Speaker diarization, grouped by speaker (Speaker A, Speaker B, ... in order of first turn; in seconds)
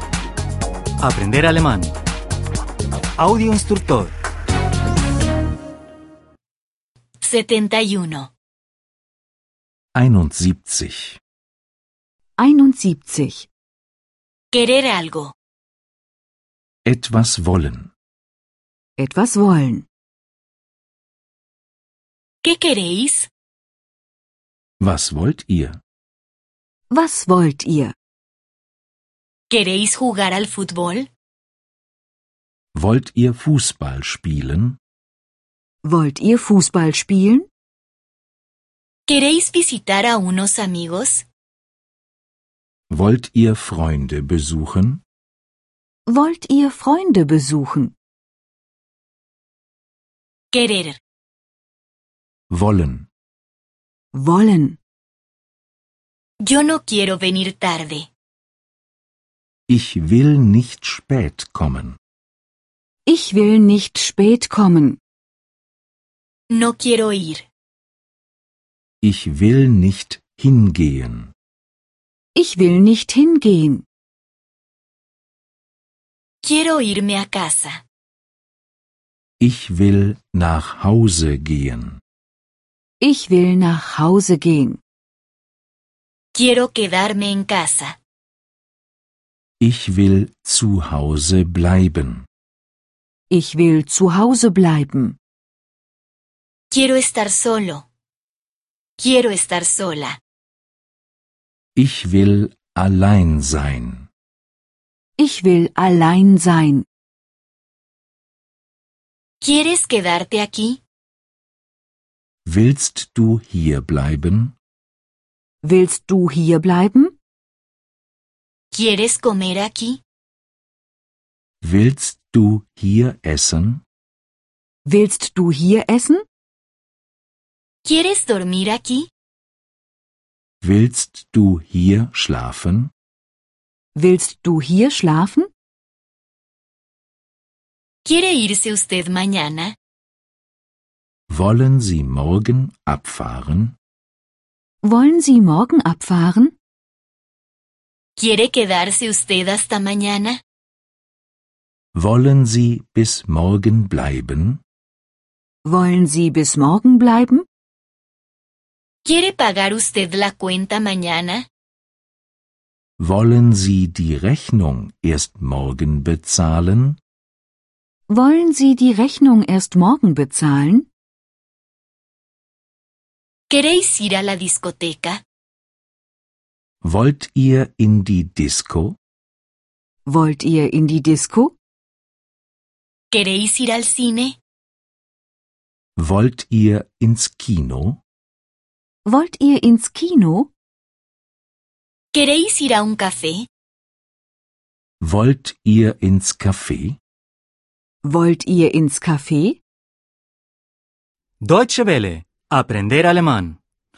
Speaker A: 1.0-1.9, 3.2-4.1, 201.4-203.6
Speaker B: 7.2-8.3, 14.5-15.3, 22.4-23.3, 29.5-31.1, 39.1-41.2, 50.5-51.0, 56.4-58.1, 66.5-67.5, 76.4-77.8, 86.3-88.0, 96.7-97.8, 99.0-100.2, 109.4-110.8, 118.7-120.0, 127.8-129.1, 138.0-139.7, 148.2-150.4, 159.1-161.5, 173.5-175.2, 183.1-184.4, 192.1-193.5
Speaker C: 9.9-11.2, 16.8-17.9, 24.8-25.8, 32.7-34.8, 42.9-45.0, 52.5-53.1, 59.7-62.0, 69.0-71.3, 79.4-82.0, 89.6-92.3, 101.8-104.1, 112.4-114.5, 121.6-123.8, 130.6-132.9, 141.3-143.8, 151.9-154.6, 163.0-167.0, 176.8-179.0, 185.9-188.0, 195.0-197.0
Speaker D: 12.4-13.5, 19.0-19.9, 26.9-27.9, 35.8-37.5, 46.1-47.9, 54.1-54.8, 63.0-65.0, 72.3-73.8, 83.0-84.8, 93.3-95.2, 105.2-106.8, 115.6-117.1, 124.8-126.2, 133.9-135.5, 144.8-146.5, 155.6-157.4, 168.1-170.9, 180.1-181.5, 189.0-190.5, 198.0-199.6